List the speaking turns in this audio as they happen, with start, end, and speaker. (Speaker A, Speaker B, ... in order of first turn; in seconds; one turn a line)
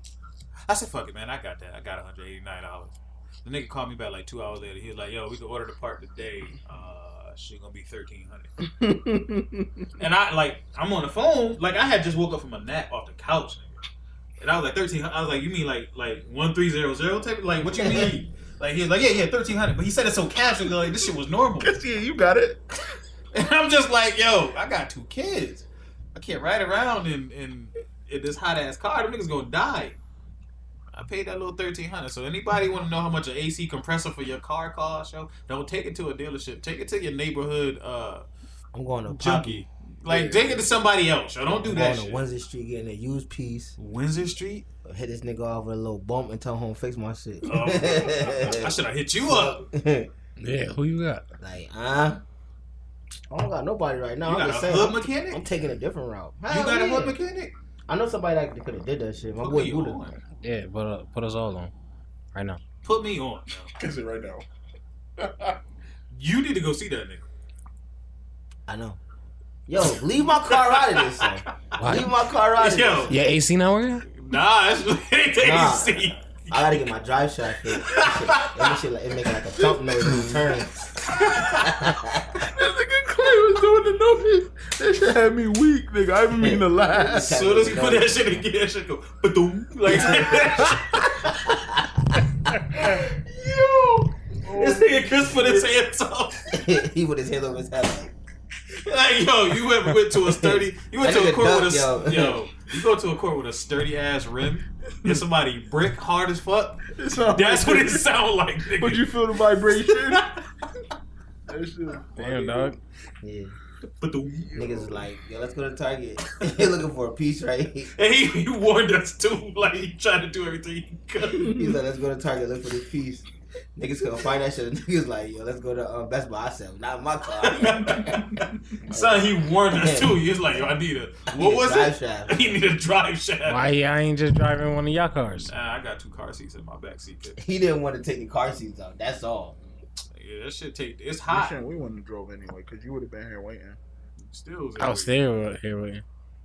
Speaker A: 0.7-8.5
Speaker B: 8.8-9.9
Speaker A: 10.0-13.8
Speaker A: 14.4-21.8
Speaker C: 17.8-18.1
Speaker B: 21.6-22.6
Speaker A: 23.3-30.0
Speaker A: 30.9-38.2
Speaker C: 38.7-40.6
Speaker A: 39.1-42.2
Speaker C: 41.6-43.8
Speaker A: 43.8-44.6
Speaker C: 44.8-50.1
Speaker A: 47.4-49.6
Speaker D: 50.4-51.2
Speaker C: 51.4-52.2
Speaker C: 53.3-57.2
Speaker A: 54.2-55.4
Speaker A: 56.5-57.5
Speaker C: 57.9-60.0
Speaker A: 59.4-60.2
Speaker D: 60.4-61.7
Speaker D: 62.3-62.6
Speaker A: 62.8-63.7
Speaker B: 63.8-64.4
Speaker B: 65.2-65.6
Speaker A: 66.1-67.2
Speaker C: 68.7-69.0
Speaker C: 69.7-73.1
Speaker A: 70.5-71.8
Speaker D: 71.8-72.1
Speaker A: 72.6-73.2
Speaker D: 73.1-74.0
Speaker A: 74.1-76.8
Speaker C: 75.4-80.8
Speaker A: 77.8-78.8
Speaker A: 81.2-81.7
Speaker C: 81.6-82.5
Speaker B: 82.4-87.3
Speaker C: 86.4-88.4
Speaker A: 87.2-91.2
Speaker C: 89.9-92.9
Speaker B: 92.8-95.7
Speaker A: 94.6-96.4
Speaker C: 96.5-98.1
Speaker A: 98.8-109.1
Speaker C: 100.2-102.4
Speaker B: 106.9-108.1
Speaker B: 108.8-110.3
Speaker A: 109.9-110.4
Speaker B: 111.5-112.8
Speaker D: 112.2-112.8
Speaker C: 113.2-113.5
Speaker A: 114.0-114.5
Speaker B: 114.4-115.0
Speaker C: 114.5-117.9
Speaker A: 117.9-121.6
Speaker C: 121.5-128.2
Speaker A: 127.4-133.7
Speaker C: 128.9-130.2
Speaker C: 131.3-132.6
Speaker D: 133.4-135.5
Speaker A: 135.4-137.4
Speaker C: 137.4-139.6
Speaker A: 140.1-141.6
Speaker B: 141.3-143.8
Speaker A: 144.2-145.2
Speaker D: 144.8-146.0